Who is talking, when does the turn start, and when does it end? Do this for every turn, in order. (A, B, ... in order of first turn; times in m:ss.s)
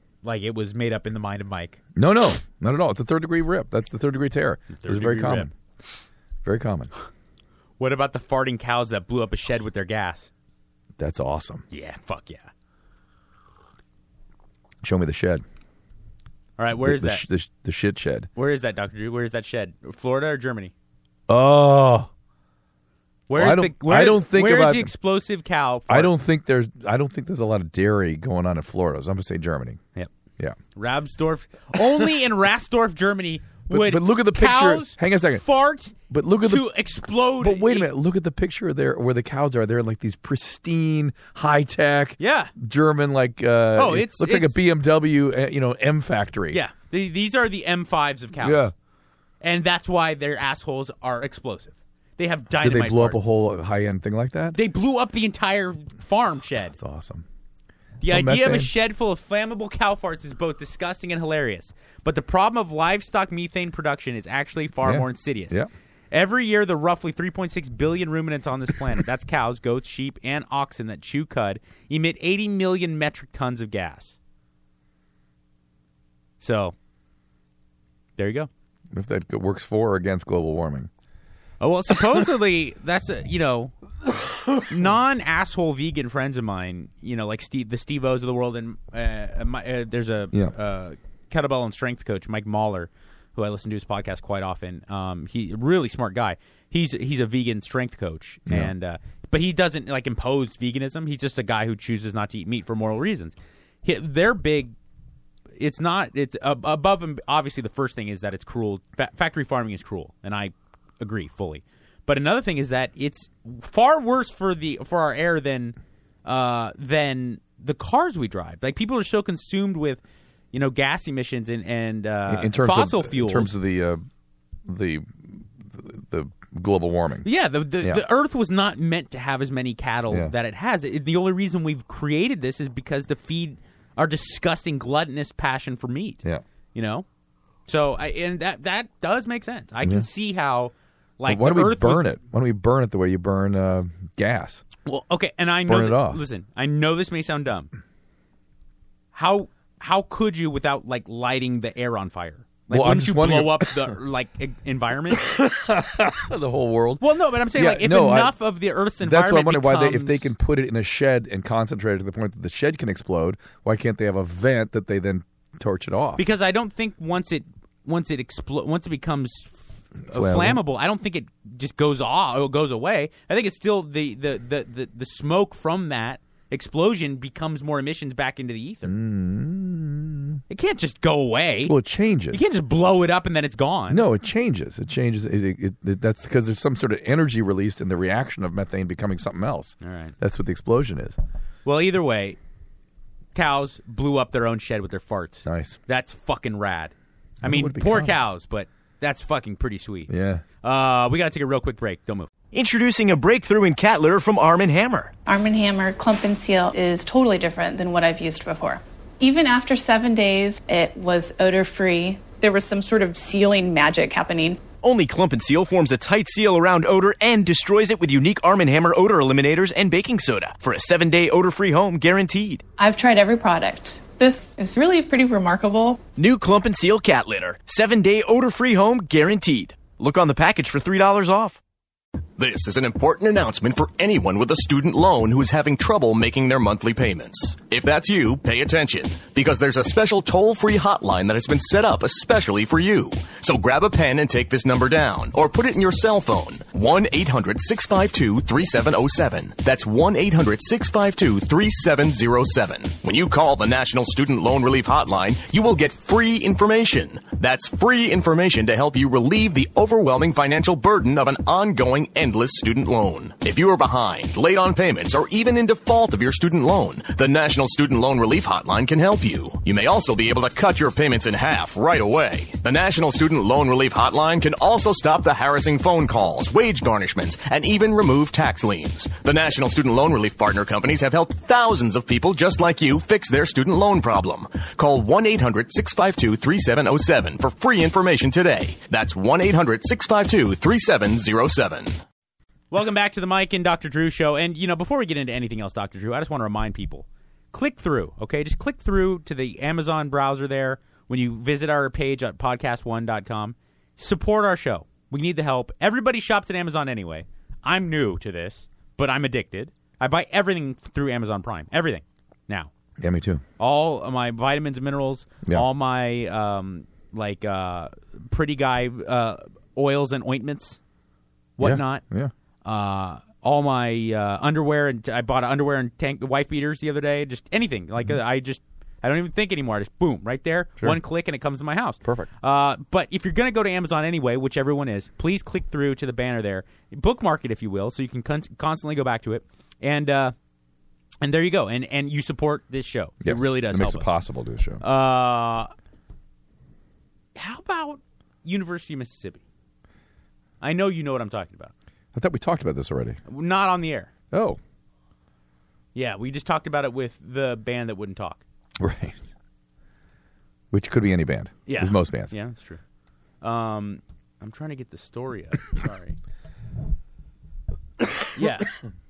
0:00.2-0:01.8 A
0:02.0-0:05.5 B
0:04.8-0:05.5 A
0:06.4-0:06.9 B
0:07.8-0:10.3 A
0:11.0-0:11.6 B
0:11.7-0:12.5 A
0:14.8-0:15.4 B
0:16.6-0:17.2 A
0:16.8-0:18.3 B
0:18.4-0:20.7 A
0:21.3-0:22.1 B
0:23.3-0:26.1 A
0:23.3-0:24.9 B
0:25.9-0:29.8 B
0:30.7-0:37.9 A
0:33.7-0:35.4 B
0:36.1-0:36.7 B
0:37.4-0:46.6 B
0:42.2-0:42.5 A
0:43.7-0:44.6 A
0:46.5-0:48.7 A
0:48.4-0:48.7 B
0:49.4-0:53.2 A
0:52.6-0:54.6 B
0:54.5-0:56.8 A
0:56.7-0:57.2 B
0:58.0-1:05.6 A
0:58.1-0:58.7 B
1:04.8-1:05.7 B
1:06.1-1:14.2 A
1:16.4-1:16.7 A
1:18.2-1:18.5 A
1:18.9-1:20.9 B
1:21.6-1:23.7 A
1:24.5-1:44.7 A
1:38.5-1:38.7 B
1:45.6-2:00.0 A
2:00.5-2:03.5 A
2:02.3-2:04.0 B
2:04.6-2:07.3 B
2:07.2-2:16.2 A
2:16.7-2:17.0 A
2:17.7-2:22.1 A
2:21.2-2:24.6 B
2:24.8-2:27.7 A
2:25.6-2:26.2 B
2:29.1-2:35.2 A
2:32.7-2:33.9 B
2:35.1-2:38.4 B
2:37.0-2:40.3 A
2:39.0-2:46.2 B
2:46.2-2:58.9 A
2:50.1-2:50.6 B
2:58.8-3:00.4 B
3:00.5-3:01.7 A
3:01.6-3:02.4 B
3:02.3-3:04.0 A
3:03.9-3:11.2 B
3:09.8-3:10.1 A
3:11.6-3:12.4 A
3:13.3-3:20.1 A
3:15.4-3:15.8 B
3:17.4-3:18.2 B
3:20.1-3:20.4 B
3:20.6-3:22.3 A
3:22.5-3:25.1 C
3:25.3-3:34.6 D
3:34.8-3:42.6 C
3:42.8-3:46.0 D
3:46.2-3:51.6 C
3:52.4-4:52.0 E
4:52.7-5:12.7 A
5:13.0-5:13.4 B
5:13.6-5:20.8 A
5:21.6-5:22.0 A
5:21.6-5:22.3 B
5:22.6-5:40.3 A
5:32.0-5:32.3 B
5:41.2-5:44.1 A
5:43.2-5:44.8 B
5:44.8-5:45.7 A
5:47.3-5:49.4 A
5:50.6-5:51.7 A
5:52.1-5:53.2 B
5:53.3-5:54.1 A
5:54.3-5:54.6 B
5:55.9-5:58.4 A
5:58.8-5:59.2 B
6:00.7-6:02.3 B
6:01.6-6:02.8 A
6:03.4-6:06.2 A
6:08.3-6:08.7 A